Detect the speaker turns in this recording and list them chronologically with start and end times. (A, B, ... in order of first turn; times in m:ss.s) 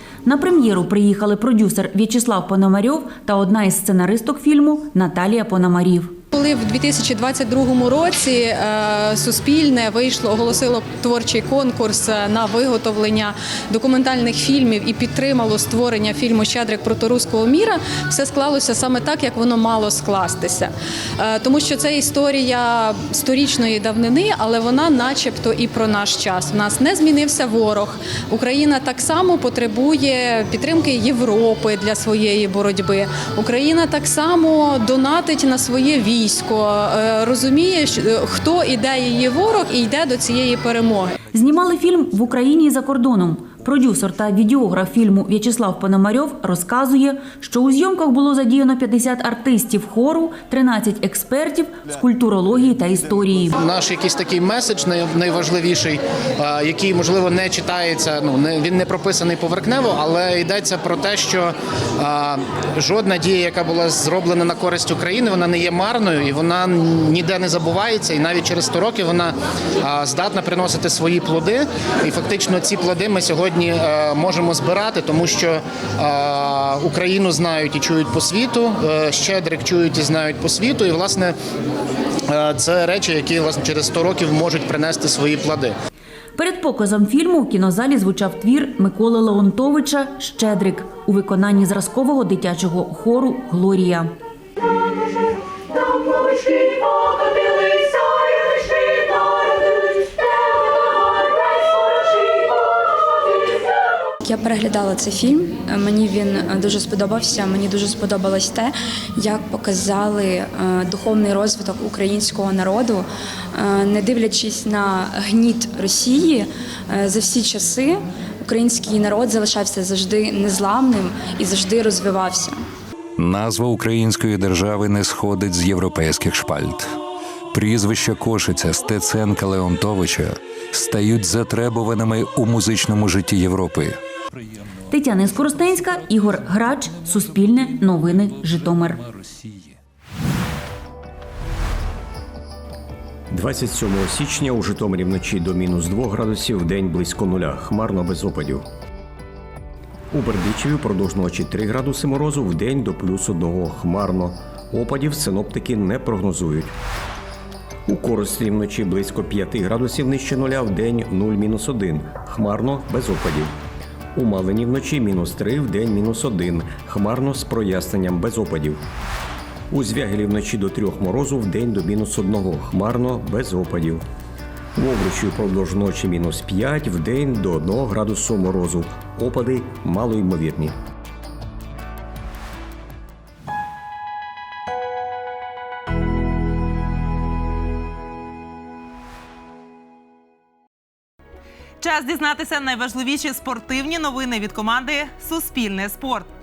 0:00.2-0:06.2 A
0:06.3-0:41.2 B
0:41.3-0:53.6 A
0:53.6-1:21.4 C
1:22.3-1:25.7 C
1:26.4-1:34.1 A
1:44.2-2:02.6 D
2:03.2-2:06.9 E
2:07.5-2:14.0 E
2:14.9-2:19.0 A
2:23.3-2:28.6 F
2:30.1-2:36.7 F
2:37.9-2:43.5 F
2:44.2-2:48.8 F
2:49.7-2:54.0 F
2:54.8-3:00.8 F
3:11.8-3:16.3 G